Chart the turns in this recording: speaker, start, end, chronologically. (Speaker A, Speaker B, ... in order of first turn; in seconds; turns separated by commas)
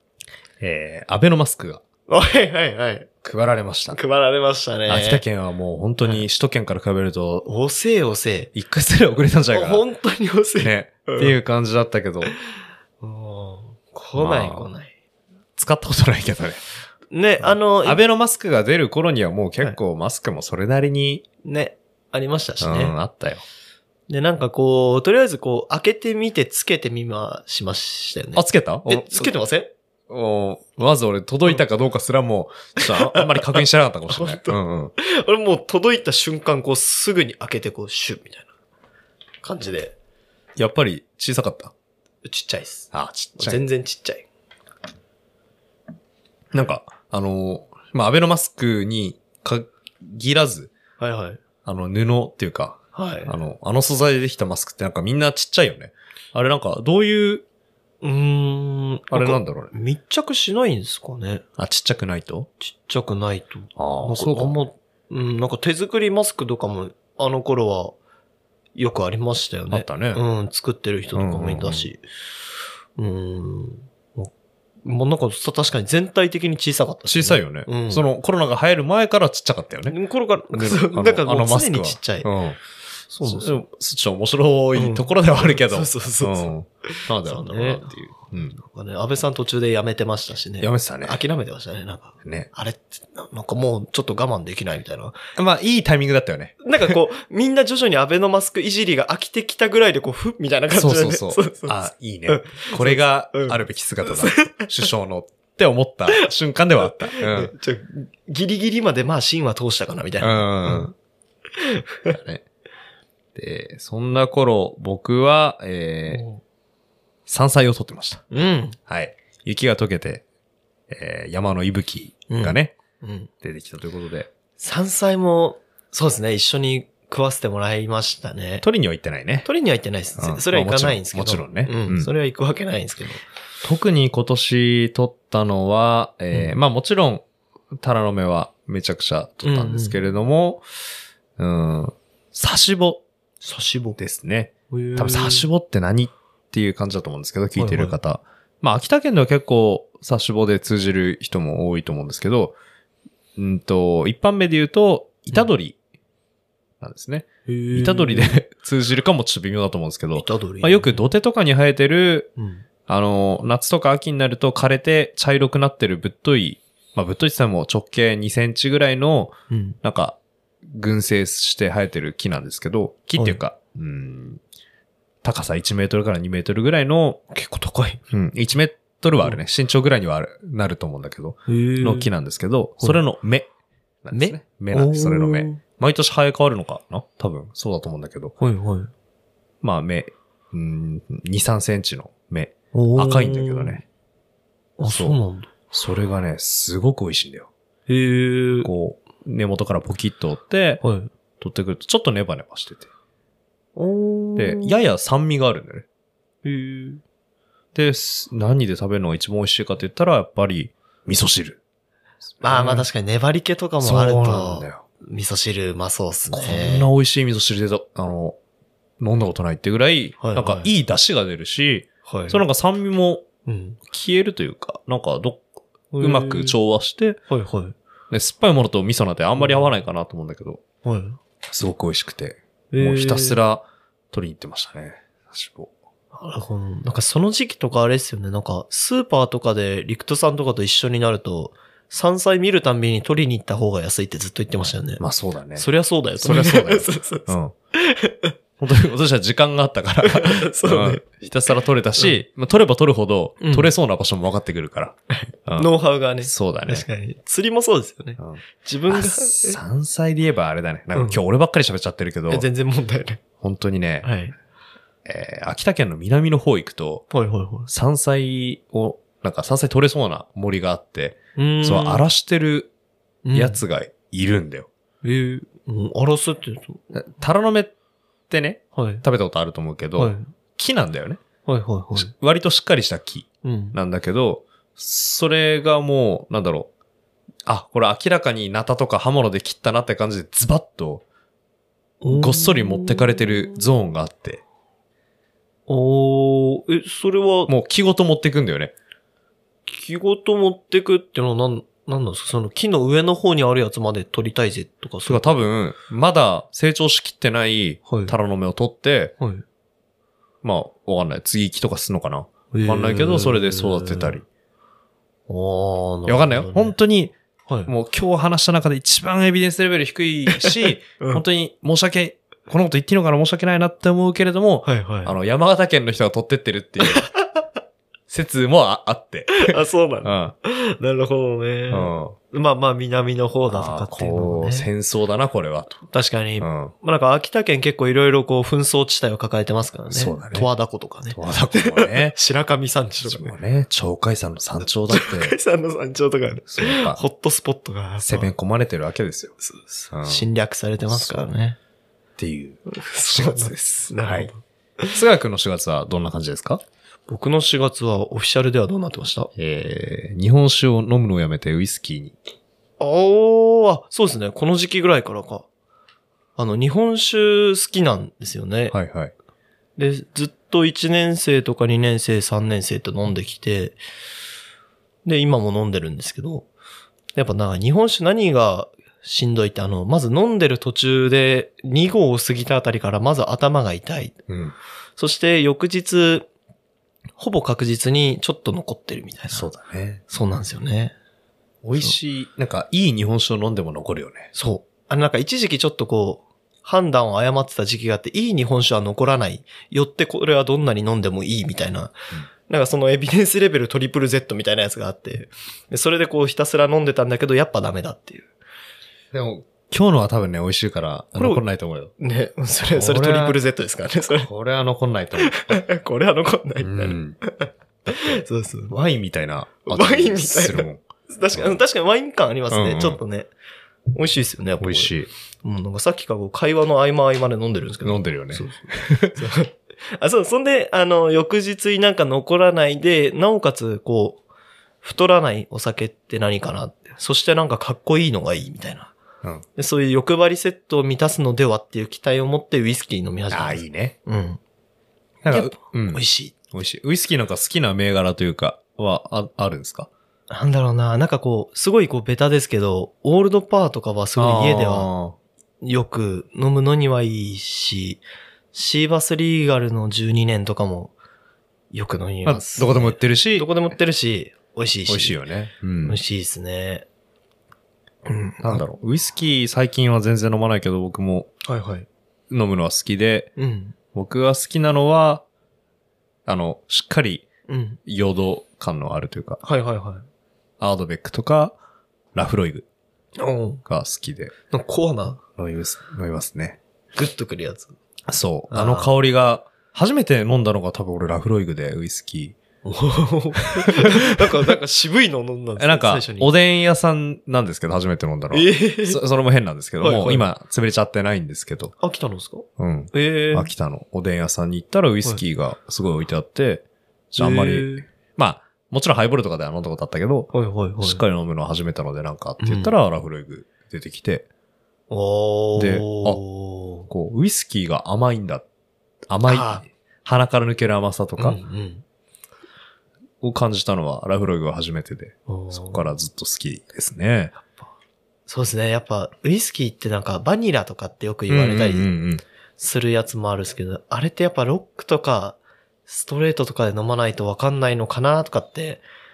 Speaker A: 0.6-1.8, Speaker B: 2.1-3.1, Speaker A: 3.2-4.0, Speaker B: 3.9-5.2, Speaker A: 4.9-7.5, Speaker B: 7.5-8.5, Speaker A: 8.5-9.8, Speaker B: 9.5-11.4, Speaker A: 10.6-12.3, Speaker B: 13.0-14.9, Speaker A: 14.2-14.7, Speaker A: 15.6-16.6, Speaker B: 17.1-18.0, Speaker A: 17.4-21.2, Speaker B: 21.4-23.0, Speaker A: 22.6-23.4, Speaker B: 24.1-29.7, Speaker A: 28.4-29.3, Speaker A: 30.1-34.9, Speaker B: 32.8-38.5, Speaker B: 39.4-40.0, Speaker A: 40.6-41.7, Speaker B: 42.2-44.3, Speaker A: 42.9-43.6, Speaker A: 46.5-50.7, Speaker B: 51.0-51.4, Speaker A: 51.6-57.5, Speaker B: 53.0-53.4, Speaker B: 58.0-61.4, Speaker A: 59.1-59.7, Speaker A: 61.6-62.5, Speaker B: 62.6-68.0, Speaker A: 63.8-64.6, Speaker B: 68.8-72.0, Speaker A: 69.7-70.2, Speaker A: 71.2-71.9, Speaker B: 73.0-74.3, Speaker B: 74.8-78.0, Speaker A: 77.1-80.0, Speaker B: 79.9-82.3, Speaker A: 80.5-82.6, Speaker B: 83.1-83.6, Speaker A: 83.2-88.6, Speaker B: 84.8-95.2, Speaker A: 90.6-91.2, Speaker A: 92.2-92.5, Speaker A: 95.4-97.0, Speaker B: 96.6-104.9, Speaker A: 100.7-107.5, Speaker B: 106.1-110.9, Speaker A: 110.2-110.9, Speaker B: 111.6-112.2, Speaker A: 112.1-112.4, Speaker A: 113.3-116.2, Speaker B: 116.1-116.4, Speaker A: 117.3-118.2, Speaker B: 118.3-118.8, Speaker A: 118.9-120.2, Speaker A: 120.9-122.7, Speaker B: 122.3-123.3, Speaker A: 123.4-124.3, Speaker B: 124.6-128.7, Speaker A: 128.6-129.5, Speaker B: 129.4-133.2, Speaker A: 130.2-132.1, Speaker A: 133.6-137.2, Speaker B: 136.3-136.6, Speaker A: 137.8-140.6, Speaker B: 139.4-140.0, Speaker A: 141.4-143.0, Speaker B: 143.4-144.0, Speaker A: 144.0-152.6, Speaker B: 144.7-145.5, Speaker B: 147.6-148.0, Speaker A: 153.4-155.8, Speaker A: 156.8-162.3, Speaker B: 157.5-158.4, Speaker B: 160.2-161.0, Speaker B: 162.4-162.7, Speaker A: 162.9-174.4, Speaker B: 169.5-169.8, Speaker A: 175.2-177.2, Speaker B: 177.3-178.0, Speaker A: 178.1-183.5, Speaker B: 181.5-182.1, Speaker A: 184.0-188.3, Speaker B: 184.1-185.6, Speaker B: 188.4-188.9, Speaker A: 189.6-193.8, Speaker B: 192.7-193.8, Speaker B: 194.8-195.5, Speaker A: 194.9-195.2, Speaker A: 195.7-197.5, Speaker B: 197.9-198.7, Speaker A: 198.6-200.8, Speaker B: 200.8-201.1, Speaker A: 201.4-202.9, Speaker B: 203.8-204.9, Speaker A: 204.4-205.9, Speaker B: 206.4-207.0, Speaker A: 207.8-211.6, Speaker A: 212.4-212.9, Speaker B: 212.4-216.9, Speaker A: 213.8-214.8, Speaker A: 216.3-218.4, Speaker A: 219.0-223.3, Speaker B: 220.2-220.7, Speaker B: 222.1-222.4, Speaker B: 223.5-223.8, Speaker A: 223.9-225.4, Speaker B: 225.9-226.6, Speaker A: 226.0-227.2, Speaker B: 227.3-227.8, Speaker A: 228.1-230.6, Speaker B: 229.4-229.7, Speaker B: 230.8-231.2, Speaker A: 231.5-235.7, Speaker B: 232.7-233.4, Speaker B: 236.1-245.0, Speaker A: 245.0-245.7, Speaker B: 245.6-248.3, Speaker A: 246.2-247.5, Speaker A: 248.6-255.0, Speaker B: 250.0-251.1, Speaker B: 253.4-253.7, Speaker B: 255.1-259.6, Speaker A: 256.2-256.9, Speaker A: 258.2-262.5, Speaker B: 260.9-261.2, Speaker B: 262.3-263.2, Speaker A: 263.4-264.1, Speaker B: 264.0-264.3, Speaker A: 265.1-267.1, Speaker B: 267.1-267.7, Speaker A: 267.7-272.7, Speaker B: 271.4-272.1, Speaker B: 273.2-273.6, Speaker A: 273.3-274.7, Speaker B: 275.0-276.8, Speaker A: 276.9-277.7, Speaker A: 278.3-281.2, Speaker B: 278.8-279.0, Speaker B: 280.0-280.3, Speaker B: 281.5-282.1, Speaker A: 281.9-286.7, Speaker B: 283.4-283.8, Speaker A: 287.5-291.0, Speaker B: 292.0-293.6, Speaker A: 292.1-294.4, Speaker B: 295.7-297.5, Speaker A: 297.5-298.7, Speaker B: 299.7-305.4, Speaker A: 305.1-309.1, Speaker B: 307.9-308.2, Speaker A: 310.4-314.3, Speaker B: 312.5-314.2, Speaker B: 315.3-316.7, Speaker A: 316.1-317.1, Speaker A: 317.7-327.1, Speaker B: 320.4-321.2, Speaker B: 324.6-325.2, Speaker B: 326.9-327.1, Speaker A: 328.1-330.3, Speaker B: 329.3-334.7, Speaker A: 331.7-332.2, Speaker A: 333.5-335.8, Speaker B: 335.9-343.4, Speaker A: 336.4-336.7, Speaker A: 339.9-340.5, Speaker A: 341.1-342.2, Speaker A: 343.1-345.4, Speaker B: 344.9-348.3, Speaker A: 346.5-347.0, Speaker A: 348.0-349.4, Speaker B: 349.4-351.6, Speaker A: 349.9-350.3, Speaker A: 350.9-351.3, Speaker A: 352.2-354.3, Speaker B: 352.7-355.0, Speaker A: 354.9-356.6, Speaker B: 357.1-359.3, Speaker A: 359.4-362.2, Speaker B: 362.8-365.5, Speaker B: 366.4-368.8, Speaker A: 368.7-369.1, Speaker B: 369.8-373.8, Speaker B: 375.1-376.5, Speaker B: 377.2-384.2, Speaker A: 384.3-384.6, Speaker B: 385.0-386.3, Speaker B: 387.2-389.5, Speaker A: 389.3-390.0, Speaker B: 390.1-390.9, Speaker A: 391.6-394.3, Speaker B: 394.3-408.3, Speaker A: 409.1-411.9, Speaker B: 411.2-411.4, Speaker B: 412.0-414.3, Speaker A: 412.7-413.4, Speaker A: 414.2-415.6, Speaker B: 415.2-418.8, Speaker A: 416.6-417.2, Speaker A: 417.9-421.6, Speaker B: 419.7-423.3, Speaker A: 422.5-423.0, Speaker B: 423.9-424.9, Speaker A: 424.6-425.1, Speaker B: 425.4-434.2, Speaker A: 427.8-429.2, Speaker B: 434.8-438.9, Speaker B: 439.6-444.4, Speaker A: 443.3-444.0, Speaker A: 445.2-449.9, Speaker B: 445.3-446.3, Speaker B: 450.3-454.9, Speaker A: 454.2-455.2, Speaker B: 455.6-458.0, Speaker B: 458.5-460.9, Speaker B: 461.7-465.2, Speaker A: 462.2-463.5, Speaker A: 464.9-466.0, Speaker B: 465.8-466.9, Speaker B: 468.1-468.6, Speaker A: 468.4-471.3, Speaker B: 471.5-471.9, Speaker A: 472.3-473.3, Speaker B: 473.4-473.8, Speaker A: 473.9-475.2, Speaker A: 476.3-477.3, Speaker B: 477.5-477.8, Speaker A: 477.9-479.4, Speaker B: 479.4-480.1, Speaker A: 480.6-481.6, Speaker A: 482.1-482.7, Speaker B: 483.2-483.6, Speaker A: 483.7-484.3, Speaker B: 484.5-485.2, Speaker A: 485.4-486.6, Speaker B: 487.0-487.7, Speaker A: 488.1-492.4, Speaker B: 488.5-488.9, Speaker B: 492.6-496.3, Speaker A: 493.7-494.5, Speaker A: 495.6-501.7, Speaker B: 498.3-499.0, Speaker B: 499.8-500.2, Speaker B: 501.8-503.5, Speaker A: 502.6-514.3, Speaker B: 507.2-507.9, Speaker B: 510.3-511.0, Speaker B: 512.4-512.8, Speaker B: 514.9-516.9, Speaker A: 515.6-516.2, Speaker A: 516.9-518.5, Speaker A: 519.1-521.4, Speaker B: 519.3-519.6, Speaker B: 521.2-521.8, Speaker A: 523.2-527.3, Speaker B: 525.3-525.9, Speaker B: 528.3-531.9, Speaker A: 531.3-532.2, Speaker B: 532.6-538.8